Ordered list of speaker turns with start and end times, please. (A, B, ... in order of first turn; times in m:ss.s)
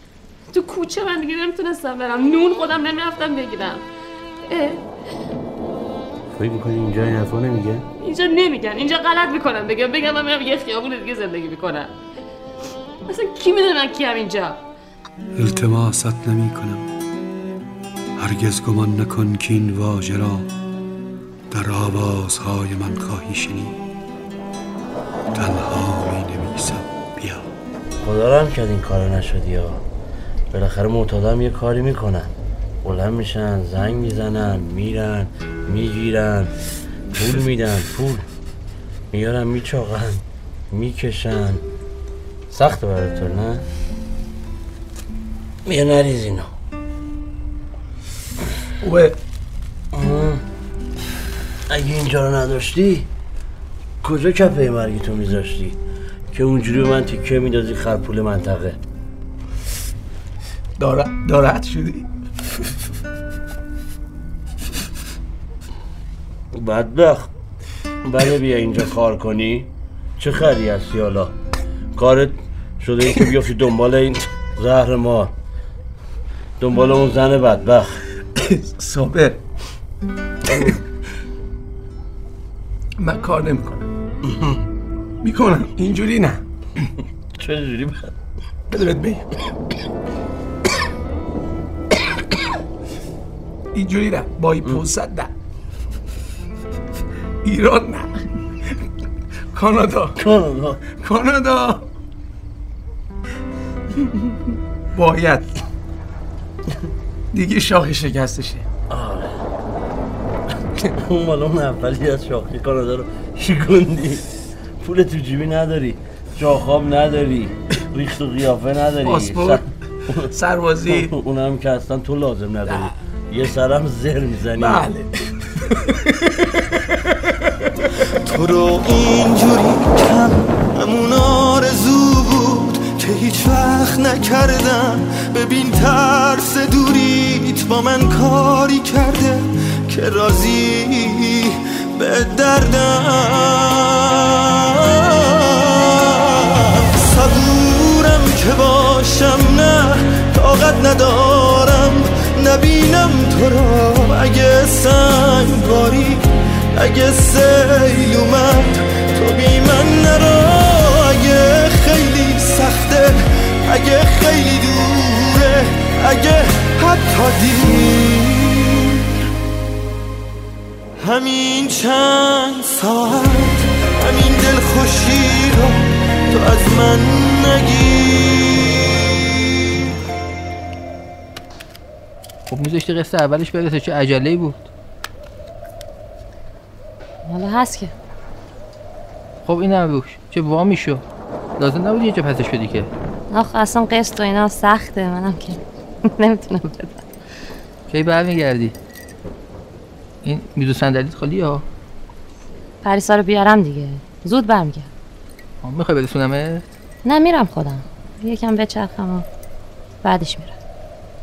0:00.5-0:03.8 A
0:04.5-0:04.8 A
0:06.3-0:07.8 B
0:08.0-0:11.9 A
0:13.1-0:14.6 A
0:15.3-0:16.9 C
0:18.2-0:20.5 C
0:21.5-0:23.8 C
0:25.3-0:27.4 C
0:28.0-0:29.8 B
0:30.5-0:32.3 B
0:32.8-0:36.5 B
0:37.1-0:38.2 B
0:39.1-0:41.6 B
0:42.5-0:43.6 B
0:45.6-0:46.5 B
0:48.8-0:49.2 D
0:49.9-0:50.4 B
0:51.7-0:53.1 B
0:54.0-0:55.8 B
0:56.3-0:58.8 B
1:00.8-1:02.0 D
1:06.5-1:07.3 B
1:08.0-1:11.3 B
1:11.9-1:15.3 B
1:16.6-1:18.0 B
1:18.4-1:19.4 D
1:23.0-1:23.8 D
1:25.2-1:26.4 D
1:27.4-1:28.1 B
1:28.7-1:29.2 D
1:33.7-1:35.3 D
1:37.4-1:38.1 D
1:39.5-1:40.1 D
1:40.2-1:41.0 B
1:41.0-1:41.8 D
1:44.9-1:45.5 D
1:47.3-1:48.6 D
1:48.9-1:49.4 B
1:50.9-1:54.2 B
1:54.8-2:00.3 B
1:59.0-2:01.1 D
2:00.9-2:04.9 B
2:04.6-2:06.6 D
2:08.2-2:49.2 E
2:51.0-2:58.8 E
3:02.5-3:04.6 F
3:07.2-3:07.9 G
3:09.4-3:10.9 F
3:11.6-3:12.7 F
3:13.3-3:17.0 G
3:17.9-3:18.6 F
3:20.2-3:21.4 F
3:22.8-3:24.9 G
3:25.6-3:26.6 F
3:27.0-3:29.2 G
3:30.0-3:30.6 G